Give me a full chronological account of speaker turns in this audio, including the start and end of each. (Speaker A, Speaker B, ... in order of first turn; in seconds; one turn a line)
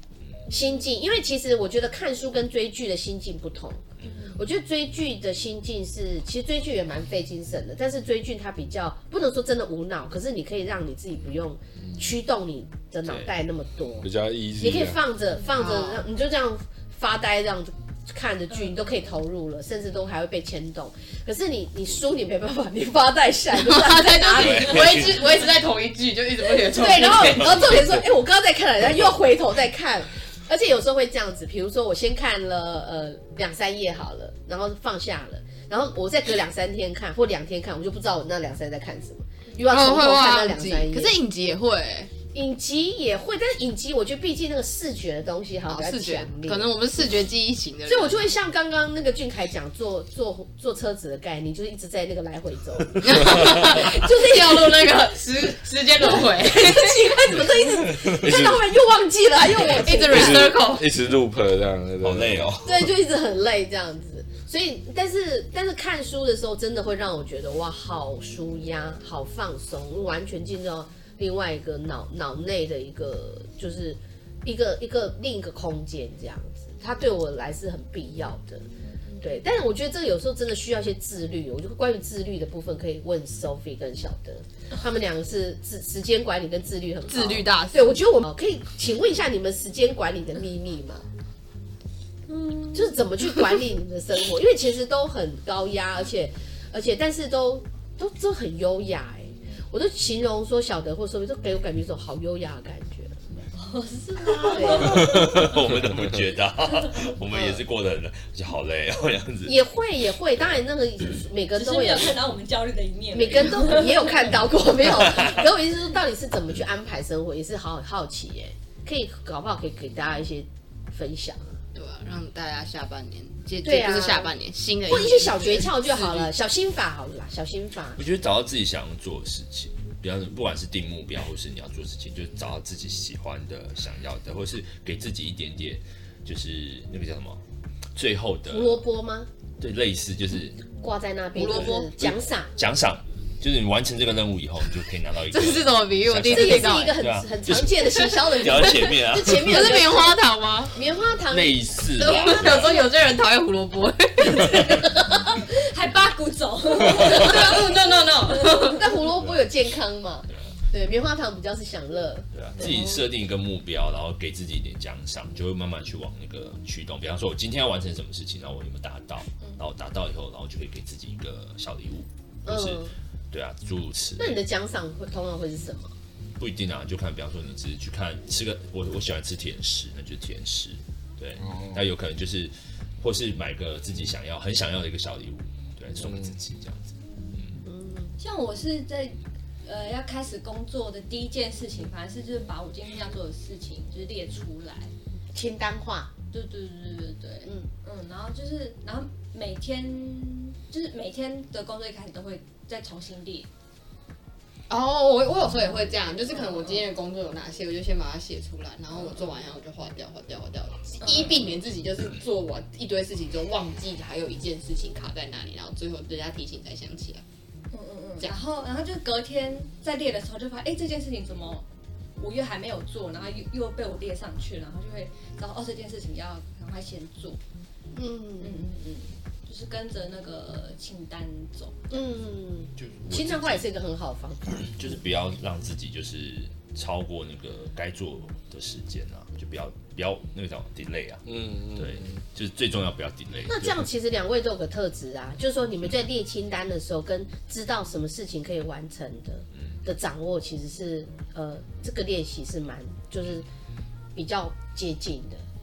Speaker A: 0.5-3.8
Speaker B: 4.0-4.4
Speaker A: 4.3-25.1
Speaker C: 13.1-13.3
Speaker D: 14.0-15.0
Speaker E: 15.5-16.1
Speaker E: 23.6-27.8
Speaker C: 24.3-25.3
Speaker A: 26.6-41.1
Speaker E: 39.7-42.1
Speaker A: 42.3-46.7
Speaker E: 45.7-48.3
Speaker A: 47.9-54.9
Speaker E: 53.0-57.5
Speaker A: 56.0-60.5
Speaker D: 58.2-58.7
Speaker E: 59.5-60.9
Speaker D: 60.1-62.6
Speaker C: 62.0-62.9
Speaker A: 62.6-78.7
Speaker A: 79.2-91.0
Speaker E: 87.1-88.0
Speaker A: 92.3-103.2
Speaker B: 103.6-105.4
Speaker A: 104.4-105.4
Speaker C: 104.8-109.6
Speaker D: 105.8-106.1
Speaker A: 107.3-107.6
Speaker A: 109.5-112.2
Speaker B: 111.5-114.2
Speaker A: 113.1-121.5
Speaker E: 121.8-126.3
Speaker A: 123.6-124.3
Speaker A: 124.9-128.0
Speaker C: 128.0-137.4
Speaker C: 138.0-138.8
Speaker A: 138.5-139.3
Speaker C: 139.6-140.6
Speaker A: 140.8-142.5
Speaker E: 141.3-141.9
Speaker C: 141.4-149.8
Speaker E: 145.3-147.0
Speaker A: 146.2-150.2
Speaker E: 149.3-150.7
Speaker A: 150.7-151.8
Speaker C: 151.3-152.9
Speaker E: 151.9-154.7
Speaker B: 154.3-157.8
Speaker E: 156.9-158.9
Speaker B: 158.3-158.8
Speaker A: 158.6-162.9
Speaker C: 162.3-174.4
Speaker A: 172.5-172.9
Speaker A: 174.2-175.9
Speaker C: 176.4-187.6
Speaker D: 181.4-181.9
Speaker D: 186.0-186.3
Speaker A: 187.7-188.2
Speaker B: 188.2-194.9
Speaker A: 195.3-196.1
Speaker B: 196.3-203.5
Speaker E: 204.7-217.2
Speaker B: 211.0-211.3
Speaker B: 217.7-221.7
Speaker B: 222.2-227.4
Speaker A: 227.9-228.7
Speaker B: 228.4-231.8
Speaker A: 231.9-234.7
Speaker C: 232.8-233.7
Speaker C: 234.6-243.9
Speaker D: 241.3-242.2
Speaker A: 243.5-253.5
Speaker A: 254.2-255.4